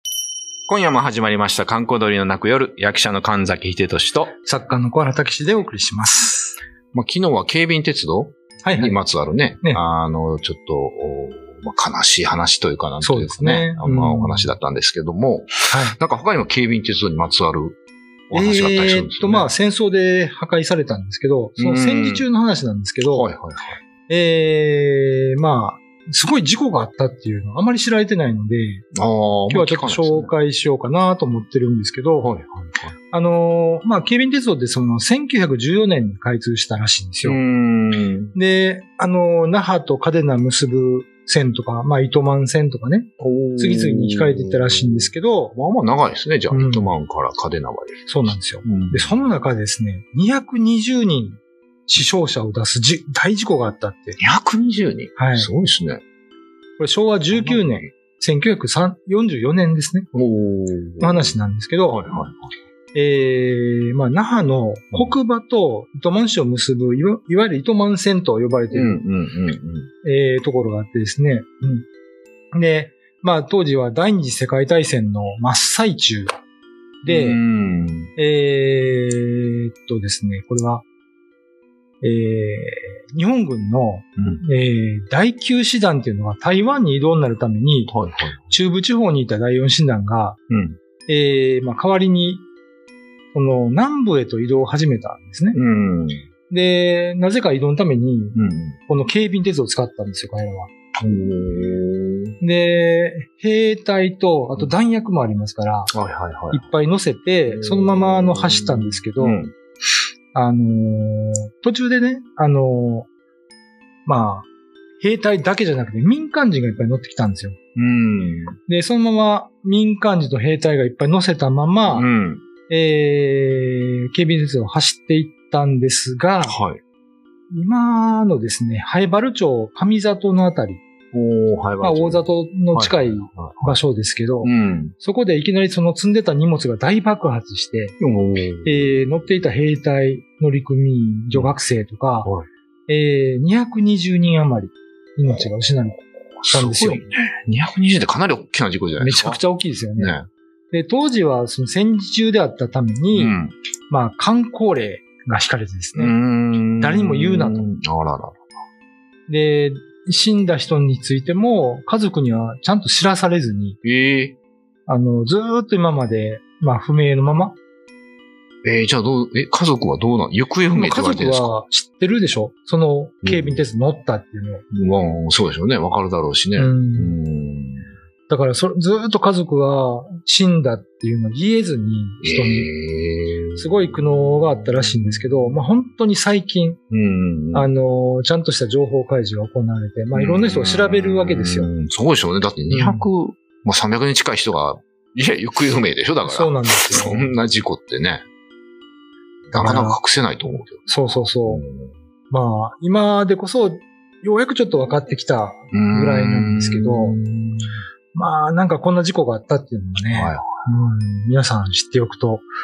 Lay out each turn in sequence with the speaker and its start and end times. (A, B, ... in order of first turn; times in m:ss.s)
0:00.7-0:04.3 A
0:04.3-0:06.6 B
0:06.9-0:17.8 A
0:08.6-0:09.0 B
0:13.0-0:14.5 B
0:15.7-0:16.0 B
0:18.3-0:19.5 A
0:18.3-0:23.3 B
0:21.6-0:22.3 A
0:23.1-0:23.8 A
0:24.1-0:28.9 B
0:28.9-0:30.4 A
0:29.5-0:32.3 B
0:32.2-0:33.0 A
0:33.1-0:37.4 B
0:37.2-0:38.4 A
0:38.4-0:45.6 B
0:43.2-0:48.1 A
0:46.5-0:47.0 B
0:48.1-0:54.2 B
0:48.6-0:49.1 A
0:54.2-0:56.0 A
0:55.2-0:55.5 B
0:56.8-1:00.1 B
0:57.3-0:57.9 A
1:00.1-1:01.4 A
1:01.0-1:02.1 B
1:01.9-1:02.4 A
1:02.9-1:09.0 B
1:08.7-1:09.9 A
1:10.0-1:11.9 B
1:12.5-1:16.3 B
1:17.0-1:17.4 B
1:17.1-1:18.1 A
1:18.2-1:20.8 B
1:22.0-1:27.9 B
1:24.2-1:24.4 A
1:27.9-1:28.5 A
1:28.5-1:30.4 B
1:30.5-1:30.8 A
1:31.1-1:32.4 B
1:33.3-1:35.6 B
1:35.5-1:36.3 A
1:36.5-1:40.7 B
1:38.4-1:38.8 A
1:41.0-1:42.4 A
1:42.4-1:45.9 B
1:45.9-1:46.7 A
1:46.5-1:49.4 B
1:47.5-1:49.5 A
1:50.3-1:53.1 B
1:54.0-1:54.5 B
1:55.0-1:57.6 B
1:57.8-1:58.6 A
1:58.7-2:02.1 B
2:01.9-2:02.4 A
2:02.7-2:06.6 B
2:06.4-2:06.8 A
2:07.5-2:10.8 B
2:11.1-2:13.8 A
2:11.8-2:18.0 B
2:14.4-2:15.0 A
2:18.0-2:19.0 A
2:18.6-2:22.3 B
2:22.9-2:27.0 B
2:26.4-2:29.4 A
2:29.0-2:30.2 B
2:30.0-2:30.3 A
2:30.7-2:33.4 B
2:33.1-2:33.6 A
2:33.9-2:37.7 B
2:35.9-2:38.4 A
2:39.3-2:43.8 B
2:43.8-2:44.4 A
2:44.9-2:47.6 B
2:48.6-2:51.6 A
2:50.7-2:54.6 B
2:53.2-2:53.6 A
2:54.7-2:57.9 A
2:56.6-2:57.2 B
2:58.3-3:02.7 B
3:02.2-3:04.0 A
3:03.6-3:06.8 B
3:06.9-3:07.7 A
3:07.5-3:11.7 B
3:10.1-3:18.2 A
3:12.7-3:13.1 B
3:16.2-3:17.4 B
3:19.5-3:21.9 A
3:19.5-3:20.0 B
3:20.6-3:21.6 B
3:22.3-3:27.2 B
3:25.7-3:27.6 A
3:28.1-3:32.5 B
3:30.1-3:30.7 A